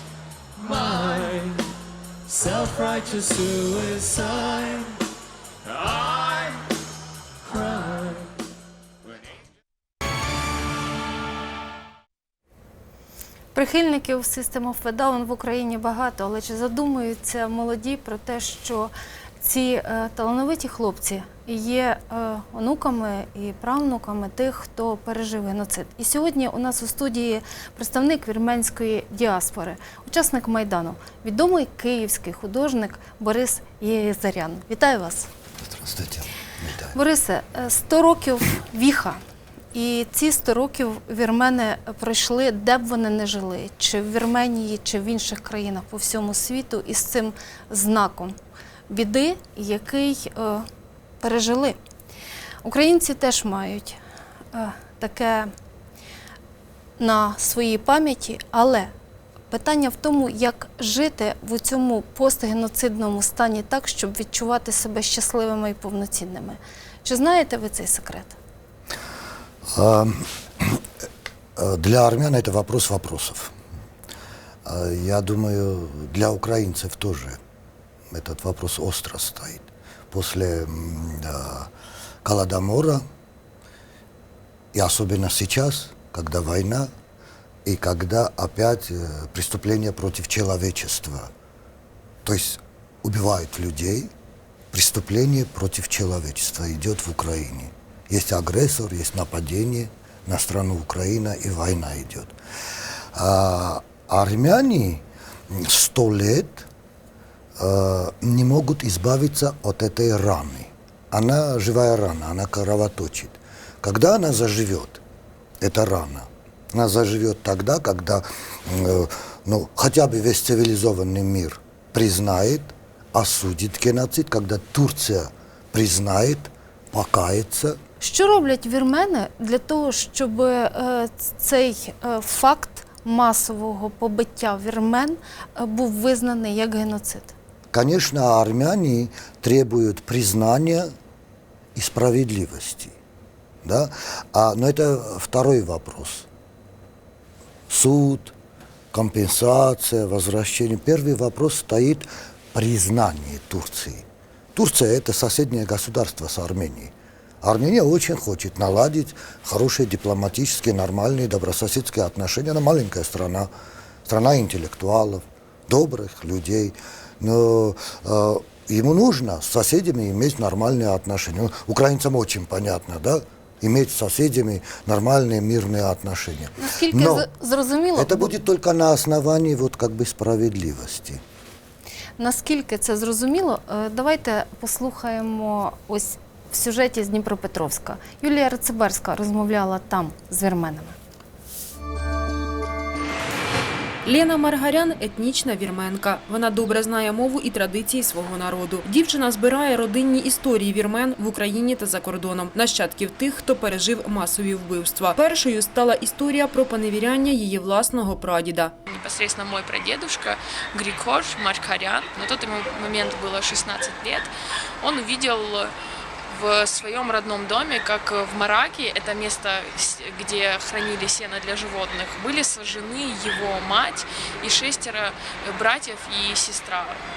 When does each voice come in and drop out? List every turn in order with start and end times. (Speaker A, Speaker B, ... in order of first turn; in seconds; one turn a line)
Speaker A: 0.6-1.6
Speaker A: 2.3-4.5
Speaker A: 5.8-6.4
Speaker B: 13.5-35.3
Speaker C: 35.6-37.0
Speaker B: 36.9-39.2
Speaker B: 39.7-48.3
Speaker B: 48.9-50.6
Speaker B: 51.2-51.8
Speaker B: 52.6-54.0
Speaker B: 54.5-55.5
Speaker B: 57.0-58.9
Speaker B: 59.5-68.3
Speaker C: 69.7-70.8
Speaker C: 71.5-73.5
Speaker C: 74.6-77.4
Speaker C: 78.1-81.7
Speaker C: 82.2-83.0
Speaker C: 84.7-86.9
Speaker C: 87.6-91.3
Speaker C: 92.2-94.1
Speaker C: 94.7-102.3
Speaker C: 103.1-106.7
Speaker C: 107.6-115.0
Speaker C: 115.6-127.8
Speaker B: 128.0-137.3
Speaker C: 137.7-140.9
Speaker C: 141.7-142.9
Speaker C: 143.6-146.3
Speaker C: 147.7-148.3
Speaker C: 148.9-163.5
Speaker C: 164.0-177.3
Speaker B: 176.6-178.3
Speaker C: 177.9-181.2
Speaker B: 182.2-190.9
Speaker D: 194.0-208.7
Speaker E: 208.9-215.7
Speaker E: 216.3-227.0